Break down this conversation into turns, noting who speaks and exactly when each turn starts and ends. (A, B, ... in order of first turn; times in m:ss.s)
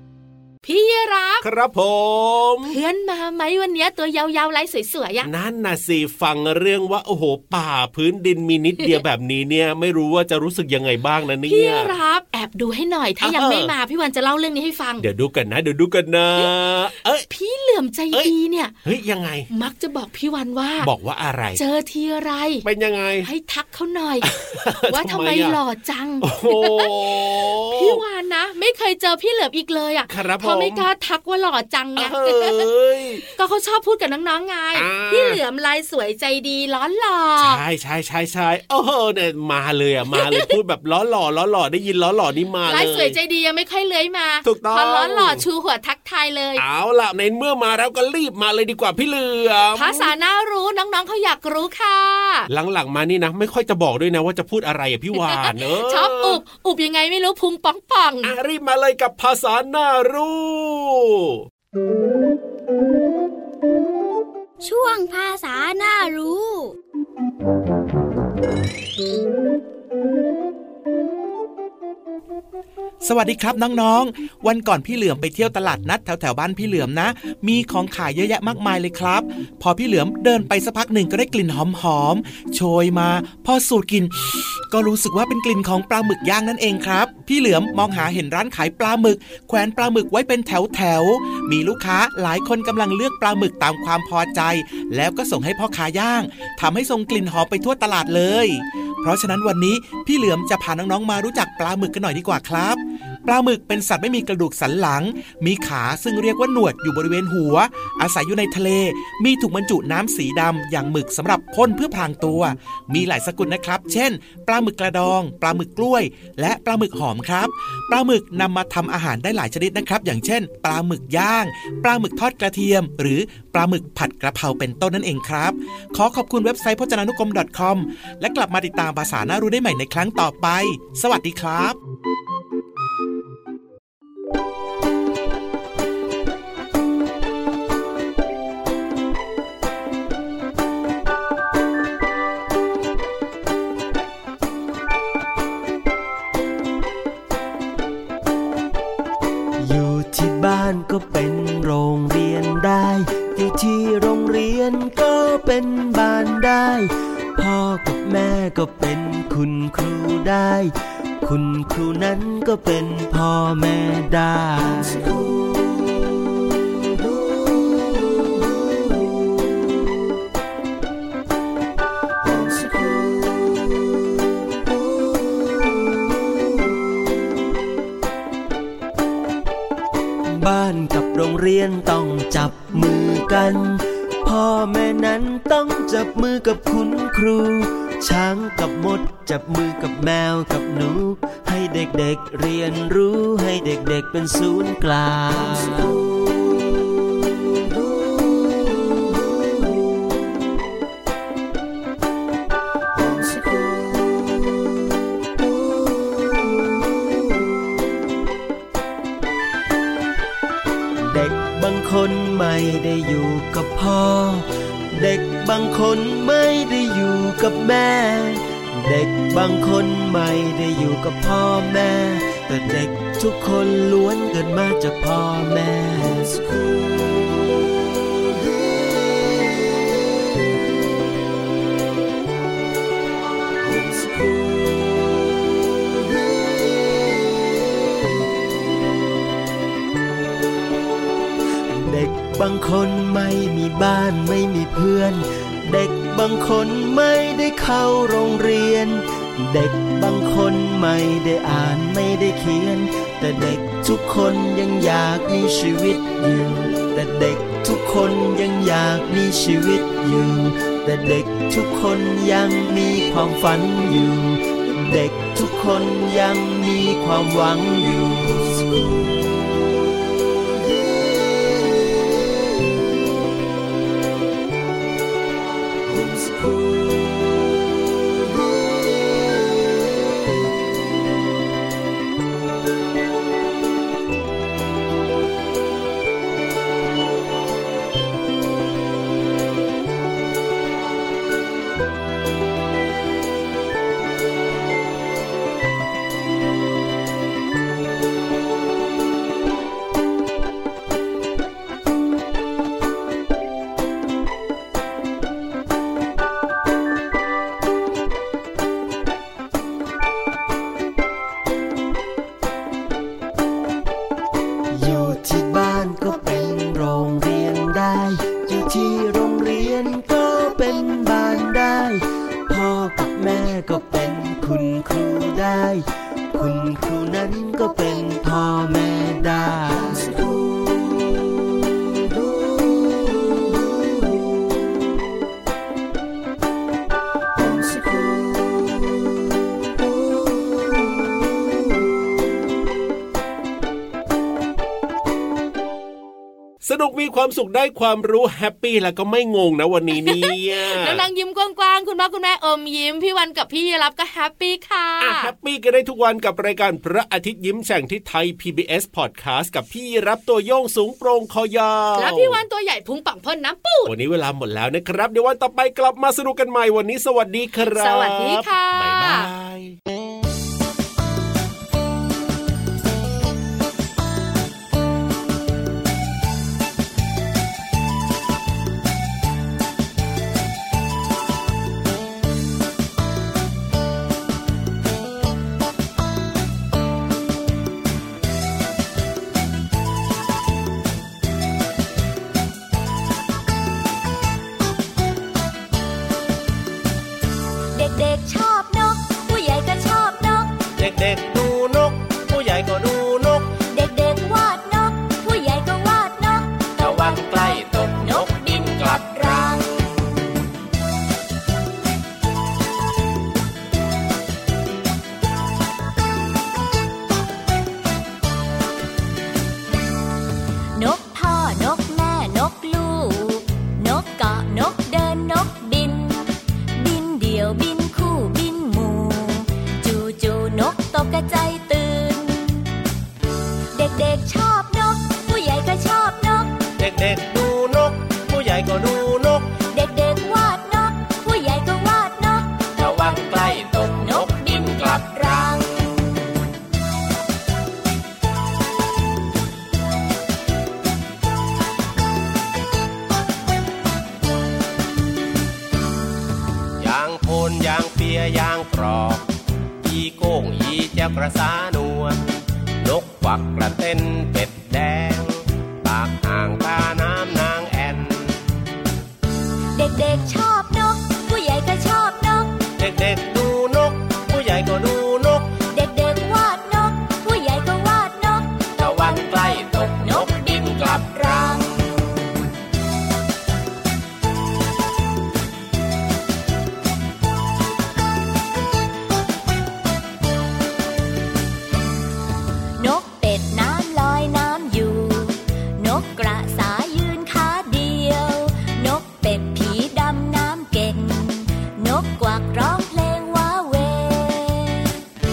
0:00.6-0:01.4 A
0:01.4-0:02.8 B
0:02.6-0:05.3 A
0:05.2-0:11.9 B
0:11.5-0:15.0 A
0:13.2-0:13.7 B
0:15.0-0:17.3 B
0:17.3-0:18.7 A
0:18.8-0:19.5 B
0:19.5-0:20.9 A
0:20.8-0:21.6 B
0:21.6-0:22.6 A
0:22.6-0:23.3 B
0:23.2-0:32.7 A
0:24.2-0:25.6 B
0:26.2-0:28.0 B
0:30.1-0:30.9 B
0:32.0-0:33.3 B
0:33.4-0:37.6 A
0:34.8-0:35.4 B
0:37.4-0:43.2 B
0:40.1-0:40.5 A
0:42.7-0:46.6 A
0:44.4-0:45.4 B
0:46.6-0:50.1 B
0:49.7-0:52.5 A
0:52.5-0:56.4 B
0:55.1-0:58.3 A
0:58.2-1:01.4 B
1:04.6-1:06.8 C
1:13.0-2:11.8 D
2:29.6-2:45.3 E
2:52.3-2:53.1 E
3:00.2-3:16.0 E
3:23.0-3:23.8 E
3:31.0-3:46.7 E
3:53.7-3:54.4 E
4:01.7-4:29.1 E
4:36.0-4:36.6 E
5:14.7-5:30.3 E
5:37.4-5:37.9 E
5:46.6-5:51.0 B
5:49.9-5:55.3 A
5:55.0-6:02.4 B
6:02.0-6:03.9 A
6:03.9-6:09.8 B
6:07.6-6:09.3 A
6:37.7-6:40.5 F
6:40.8-6:43.5 G
6:43.7-6:49.5 F
6:46.8-6:49.8 G
7:00.8-7:12.7 F
7:13.7-7:16.5 F
7:16.8-7:19.5 G
7:19.7-7:25.5 F
7:22.8-7:25.9 G
7:36.8-7:39.3 G
7:39.8-7:42.3 G
7:42.8-7:48.4 G
7:49.8-7:52.6 F
7:52.8-7:55.5 G
7:55.7-8:01.6 F
7:58.8-8:01.9 G
8:12.8-8:24.9 F